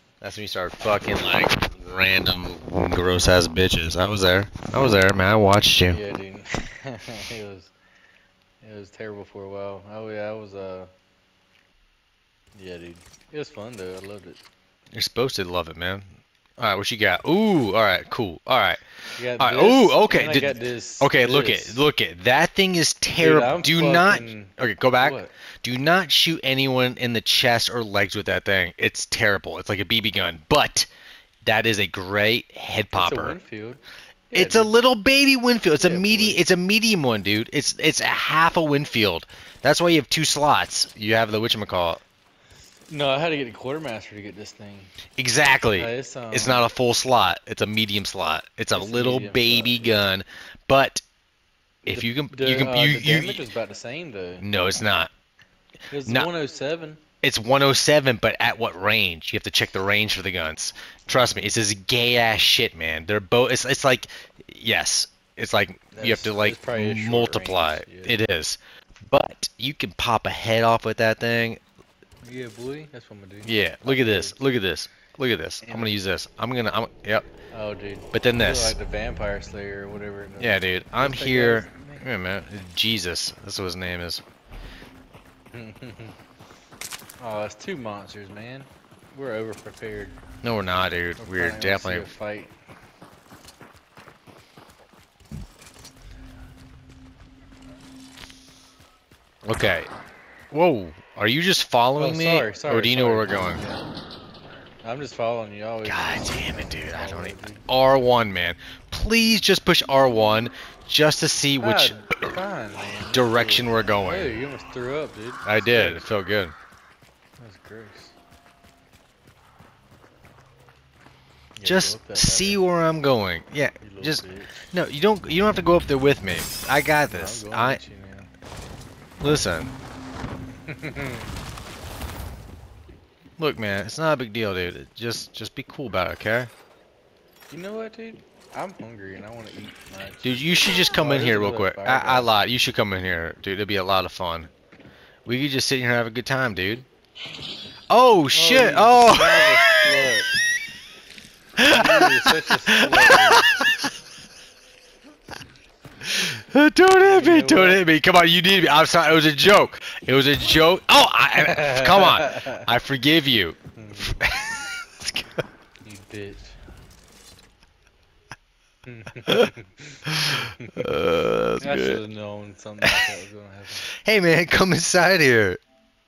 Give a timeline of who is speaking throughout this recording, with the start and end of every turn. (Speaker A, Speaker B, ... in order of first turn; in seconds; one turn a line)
Speaker A: 0.2-6.0
Speaker B: 5.9-7.7
Speaker B: 8.6-10.9
Speaker B: 12.6-14.4
Speaker A: 14.9-16.1
Speaker A: 16.6-18.8
Speaker B: 19.2-21.8
Speaker A: 19.4-30.9
Speaker B: 23.2-25.3
Speaker A: 31.4-33.4
Speaker B: 32.9-34.8
Speaker A: 34.3-42.0
Speaker B: 35.8-36.4
Speaker B: 42.9-44.9
Speaker A: 45.2-51.0
Speaker B: 45.7-46.7
Speaker B: 48.7-50.0
Speaker A: 51.8-53.5
Speaker B: 51.9-54.5
Speaker A: 54.4-55.1
Speaker B: 55.9-57.0
Speaker A: 56.1-56.3
Speaker A: 57.2-68.6
Speaker B: 61.1-61.5
Speaker B: 65.9-68.2
Speaker A: 69.1-71.6
Speaker B: 72.2-74.4
Speaker A: 73.5-77.3
Speaker B: 75.6-76.0
Speaker B: 77.5-82.1
Speaker A: 78.1-78.8
Speaker A: 80.4-84.2
Speaker B: 85.5-86.2
Speaker B: 87.2-90.2
Speaker A: 90.4-92.1
Speaker B: 91.2-92.5
Speaker A: 99.5-99.9
Speaker A: 100.5-103.6
Speaker B: 102.0-103.8
Speaker B: 104.8-107.7
Speaker A: 105.8-112.2
Speaker B: 111.6-116.1
Speaker A: 113.1-114.3
Speaker A: 115.5-116.5
Speaker B: 117.4-118.2
Speaker B: 121.6-122.6
Speaker A: 121.6-127.8
Speaker B: 123.8-124.7
Speaker B: 127.1-128.3
Speaker A: 129.2-129.7
Speaker B: 130.7-131.3
Speaker A: 133.4-136.5
Speaker B: 137.5-142.4
Speaker A: 140.2-144.5
Speaker A: 145.3-146.8
Speaker A: 147.9-149.6
Speaker B: 148.3-150.3
Speaker A: 151.6-152.1
Speaker B: 151.6-153.5
Speaker A: 152.7-153.9
Speaker A: 156.0-165.4
Speaker B: 157.0-157.8
Speaker B: 161.4-162.7
Speaker B: 163.8-164.3
Speaker B: 165.8-166.6
Speaker B: 168.9-171.1
Speaker A: 170.1-172.0
Speaker B: 171.6-173.8
Speaker A: 172.8-173.1
Speaker A: 174.0-175.6